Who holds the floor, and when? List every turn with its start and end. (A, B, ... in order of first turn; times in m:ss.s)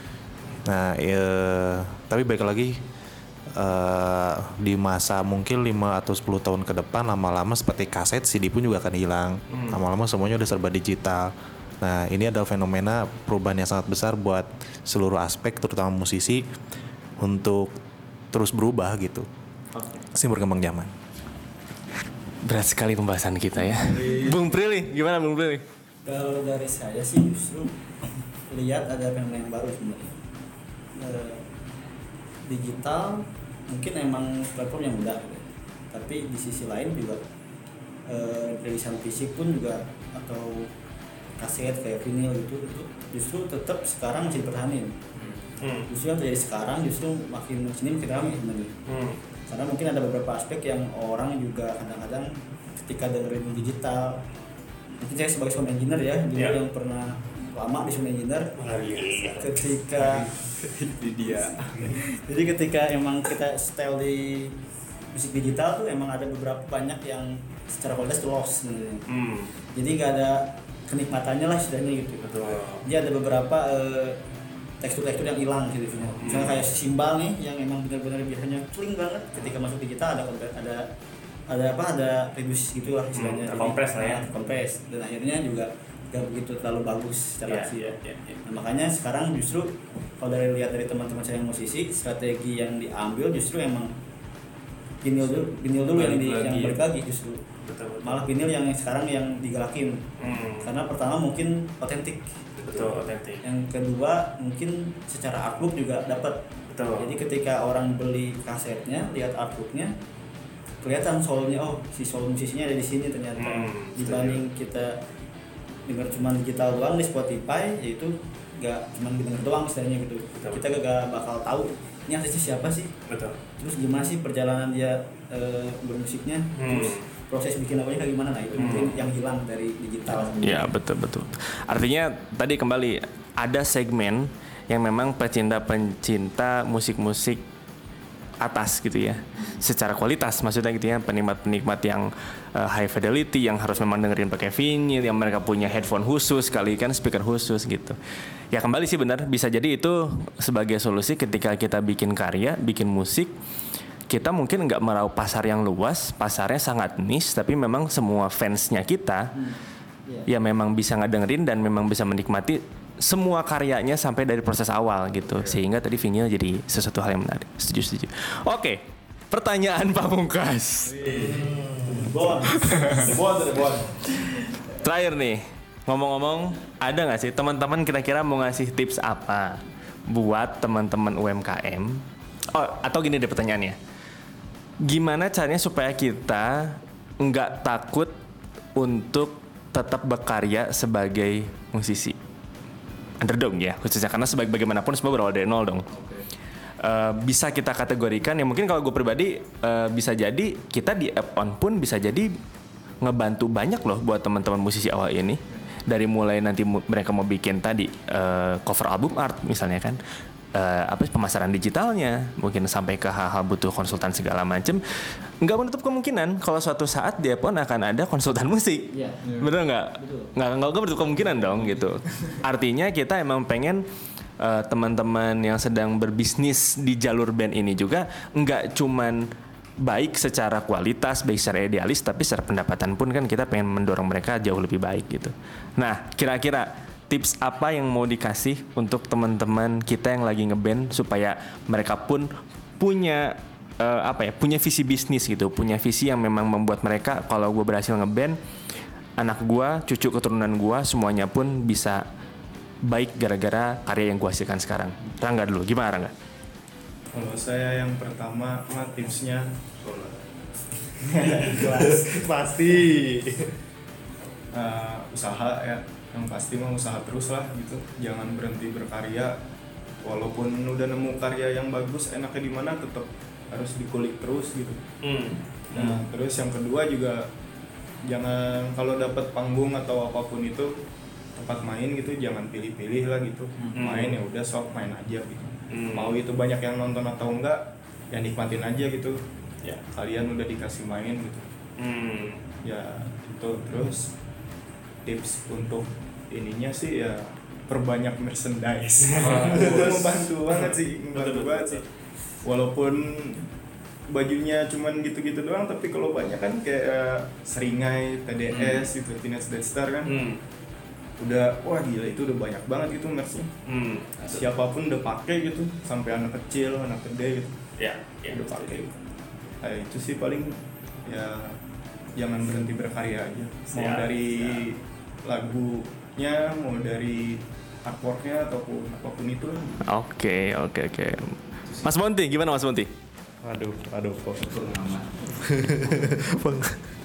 0:00.6-0:02.8 A
0:03.5-0:16.5 A
0:09.5-0:09.8 B
0:17.2-0:17.8 A
0:18.3-0:19.3 A
0:19.7-0:20.0 C
0:20.1-0:20.9 A
0:22.4-0:25.6 B
0:24.0-0:24.3 D
0:26.0-0:27.7 C
0:28.5-0:30.2 C
0:30.9-0:31.4 C
0:32.4-0:37.2 C
0:38.1-0:40.7 C
0:41.4-0:45.0 C
0:45.6-0:45.9 B
0:45.9-0:48.8 C
0:48.8-0:49.2 B
0:49.5-0:54.2 C
0:55.0-1:00.3 C
0:58.6-0:59.6 B
1:00.0-1:01.9 D
1:01.8-1:04.6 C
1:05.1-1:09.1 C
1:09.1-1:09.5 B
1:09.7-1:14.2 C
1:12.2-1:12.8 B
1:14.8-1:20.9 C
1:16.2-1:16.6 B
1:21.5-1:33.9 C
1:23.1-1:24.2 B
1:27.4-1:28.4 B
1:35.0-1:37.4 C
1:35.9-1:36.8 D
1:36.2-1:36.5 B
1:37.6-1:38.3 B
1:38.0-1:40.0 C
1:40.2-1:40.6 B
1:40.6-1:42.9 C
1:42.6-1:43.4 B
1:43.4-1:49.9 C
1:46.7-1:47.1 B
1:50.8-1:55.0 C
1:53.4-1:54.4 B
1:55.9-2:02.9 C
2:00.4-2:00.6 B
2:03.1-2:03.4 B
2:03.6-2:10.7 C
2:06.6-2:07.0 B
2:08.6-2:09.0 B
2:10.2-2:17.4 B
2:18.4-2:28.0 B
2:28.5-2:33.3 B
2:34.1-2:39.4 B
2:40.2-2:51.6 B
2:50.9-2:51.5 D
2:51.1-2:53.7 C
2:52.4-2:54.0 B
2:54.7-3:03.8 B
3:04.8-3:08.1 B
3:08.8-3:12.2 B
3:13.2-3:15.9 B
3:16.0-3:16.2 D
3:16.8-3:22.3 B
3:23.0-3:30.0 B
3:30.5-3:34.8 B
3:35.4-3:43.8 B
3:38.9-3:39.2 C
3:40.0-3:40.3 C
3:44.4-3:49.2 B
3:49.8-4:08.4 B
4:09.2-4:12.0 B
4:12.8-4:16.1 B
4:17.1-4:20.1 E
4:21.0-4:23.5 E
4:21.5-4:22.2 C
4:24.5-4:29.4 E
4:30.0-4:34.8 E
4:35.0-4:36.0 B
4:35.7-4:37.3 E
4:38.0-4:40.7 E
4:41.4-4:49.2 E
4:43.7-4:44.2 B
4:45.7-4:46.2 B
4:49.8-4:51.5 E
4:51.8-4:52.4 B
4:52.6-4:54.1 E
4:55.0-5:01.8 E
4:59.1-5:01.8 B
5:02.4-5:03.5 E
5:04.1-5:10.2 E
5:08.5-5:08.9 B
5:10.0-5:10.4 B
5:11.2-5:13.5 E
5:13.6-5:14.1 B
5:14.2-5:14.5 D
5:14.3-5:17.5 E
5:17.8-5:18.8 B
5:18.3-5:19.0 E
5:19.6-5:21.6 E
5:22.2-5:29.8 E
5:23.7-5:24.1 B
5:29.8-5:32.9 B
5:33.4-5:34.5 A
5:34.4-5:35.3 D
5:35.4-5:36.8 A